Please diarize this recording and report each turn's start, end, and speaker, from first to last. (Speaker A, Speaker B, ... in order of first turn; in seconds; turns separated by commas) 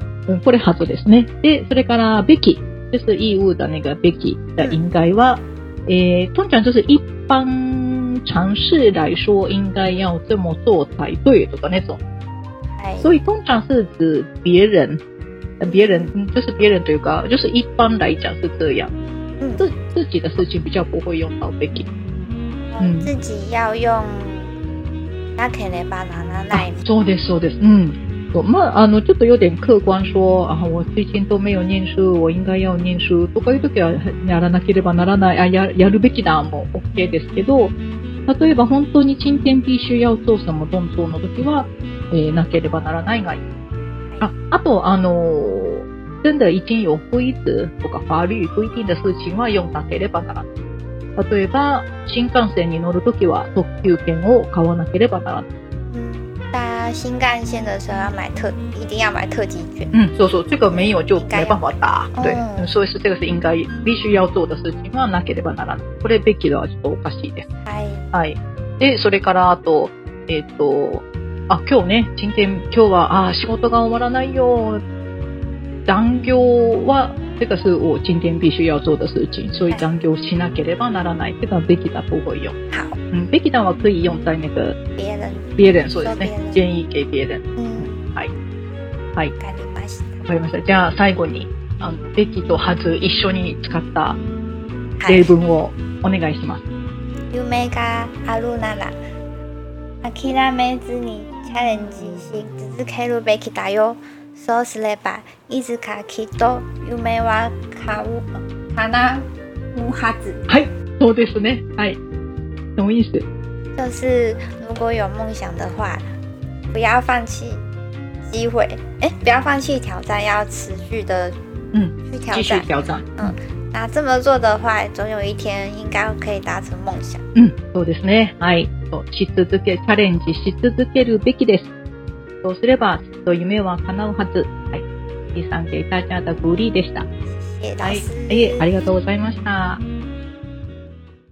Speaker A: 0.3-12.0, Speaker B: 12.8-13.1, Speaker A: 13.0-15.0, Speaker A: 15.6-18.9, Speaker B: 15.6-16.1, Speaker B: 19.4-19.6, Speaker A: 19.6-21.9, Speaker B: 22.6-24.5, Speaker A: 22.8-23.1, Speaker B: 25.4-26.9, Speaker A: 26.5-37.7, Speaker A: 38.3-43.4, Speaker A: 44.2-50.5, Speaker A: 51.1-55.5, Speaker B: 55.9-60.0, Speaker A: 59.9-67.5, Speaker B: 60.6-61.6, Speaker B: 62.1-62.7, Speaker B: 67.6-68.1, Speaker A: 68.1-74.8, Speaker A: 75.8-82.5, Speaker B: 82.7-83.0, Speaker A: 83.1-84.8, Speaker B: 85.0-86.6, Speaker A: 85.6-88.3, Speaker B: 87.6-88.1, Speaker B: 89.4-90.2, Speaker A: 90.2-94.2, Speaker B: 95.0-95.3, Speaker A: 95.0-96.6, Speaker B: 97.3-98.9, Speaker B: 100.0-110.4, Speaker A: 110.5-112.0, Speaker A: 112.8-113.2, Speaker B: 113.8-116.0, Speaker B: 116.7-117.6, Speaker B: 118.2-121.3, Speaker A: 121.7-123.3, Speaker B: 122.0-127.2, Speaker A: 127.3-131.7, Speaker A: 132.4-137.1, Speaker B: 137.3-138.7, Speaker A: 137.8-139.8